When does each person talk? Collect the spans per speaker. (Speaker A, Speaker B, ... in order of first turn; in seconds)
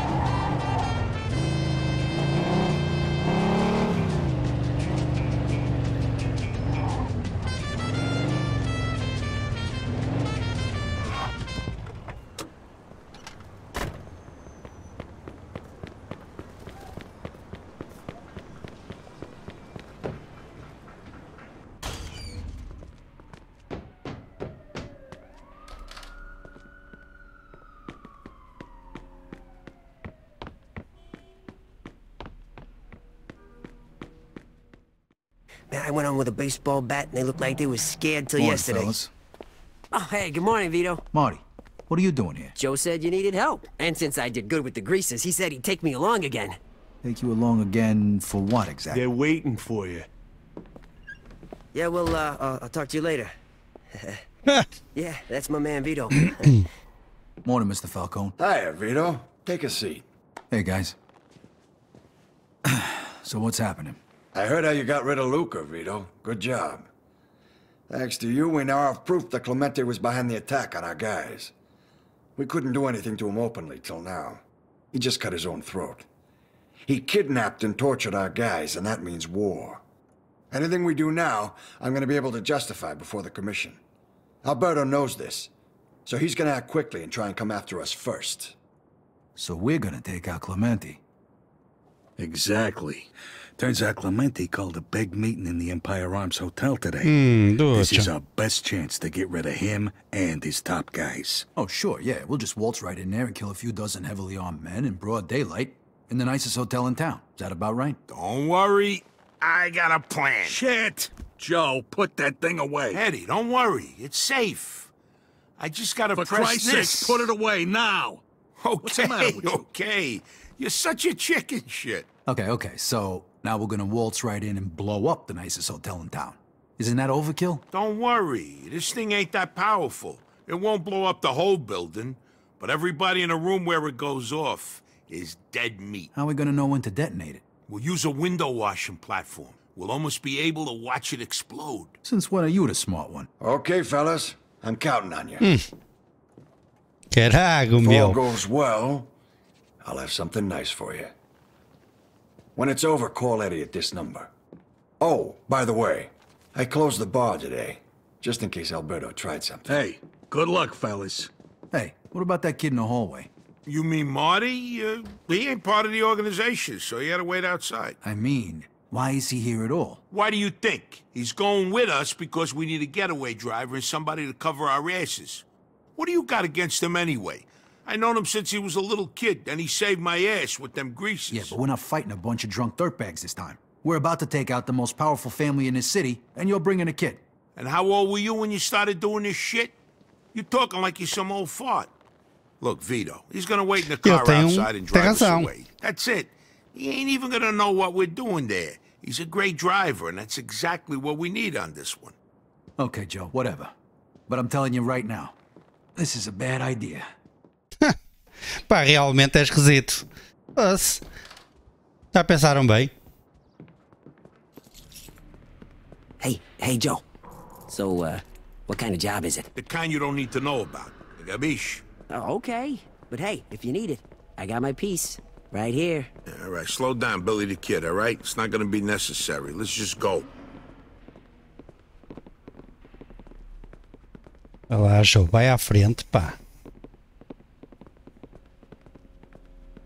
Speaker A: 35.7-39.0, 39.9-41.0, 42.5-46.6, 51.7-53.3, 54.9-56.6, 216.2-217.0, 217.7-219.5, 222.1-226.1
Speaker B: 38.4-39.1, 41.1-42.5, 47.0-49.1, 57.4-58.4, 60.5-61.0, 62.6-64.0, 89.3-91.0, 101.5-108.0, 122.3-127.6, 136.1-137.4, 142.0-143.3, 161.7-163.3, 168.0-170.0, 181.3-187.2, 202.8-203.7, 204.3-205.3, 205.9-207.1
Speaker C: 58.4-60.0, 64.3-66.9, 67.9-71.5, 72.4-76.1, 76.8-79.8, 80.5-83.8, 84.4-85.5, 86.0-88.5, 143.4-145.4, 147.8-149.1, 149.8-151.1, 152.6-154.3, 155.0-159.8
Speaker D: 92.2-97.1, 97.7-101.5, 110.5-113.0, 116.1-118.2, 118.8-119.6, 159.7-161.3
Speaker E: 97.0-98.1, 147.1-148.2, 194.0-195.5, 208.7-210.0, 210.6-211.0, 212.1-212.9, 234.7-236.4
Speaker F: 108.1-110.6, 112.9-114.9, 115.6-117.3, 118.6-122.1, 127.7-136.1, 137.7-141.9, 163.7-167.9, 170.1-175.4, 176.0-181.6, 187.6-189.7, 190.3-191.9, 192.6-202.1, 219.5-221.8, 226.3-230.3